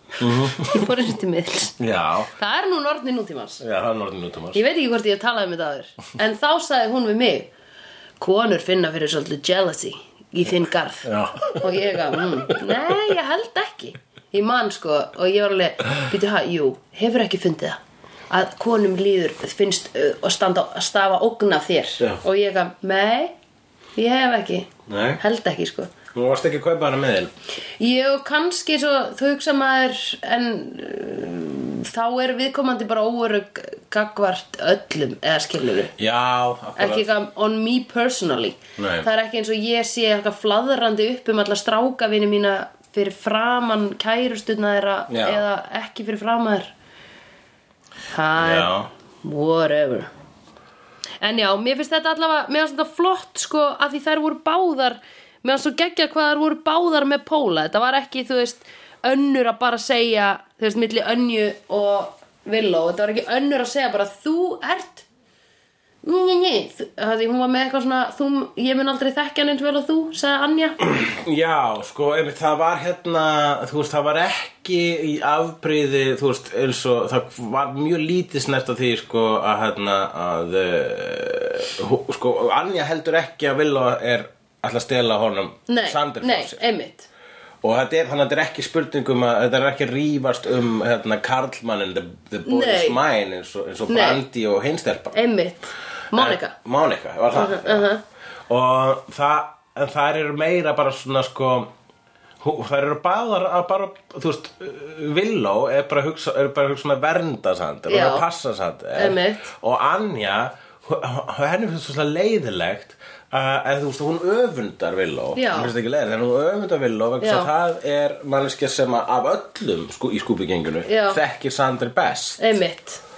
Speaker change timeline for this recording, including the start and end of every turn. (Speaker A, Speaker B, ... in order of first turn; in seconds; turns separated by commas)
Speaker A: 0.2-0.9, Speaker B: 0.4-1.8, Speaker A: 1.8-2.3, Speaker B: 2.4-3.6, Speaker A: 3.6-4.6, Speaker B: 4.5-7.5, Speaker B: 8.2-17.8, Speaker A: 11.0-12.8, Speaker B: 18.3-23.3, Speaker B: 24.0-25.9, Speaker A: 24.9-25.2, Speaker A: 26.1-27.3, Speaker B: 27.8-35.9, Speaker A: 36.0-37.1, Speaker B: 36.8-46.7, Speaker A: 38.8-39.1, Speaker A: 45.1-45.4, Speaker B: 48.1-50.1, Speaker A: 48.4-48.9, Speaker B: 51.2-65.0, Speaker B: 66.0-70.8, Speaker A: 70.8-86.6, Speaker B: 85.7-87.1, Speaker A: 87.6-95.2, Speaker B: 92.5-93.0, Speaker B: 93.9-94.2, Speaker B: 95.1-96.5, Speaker A: 96.1-97.9, Speaker B: 97.3-98.0, Speaker A: 98.5-101.7, Speaker A: 102.4-122.6, Speaker B: 107.9-108.2, Speaker B: 109.0-109.5, Speaker B: 115.3-115.7, Speaker B: 117.2-117.5, Speaker B: 120.8-121.2, Speaker B: 122.4-123.0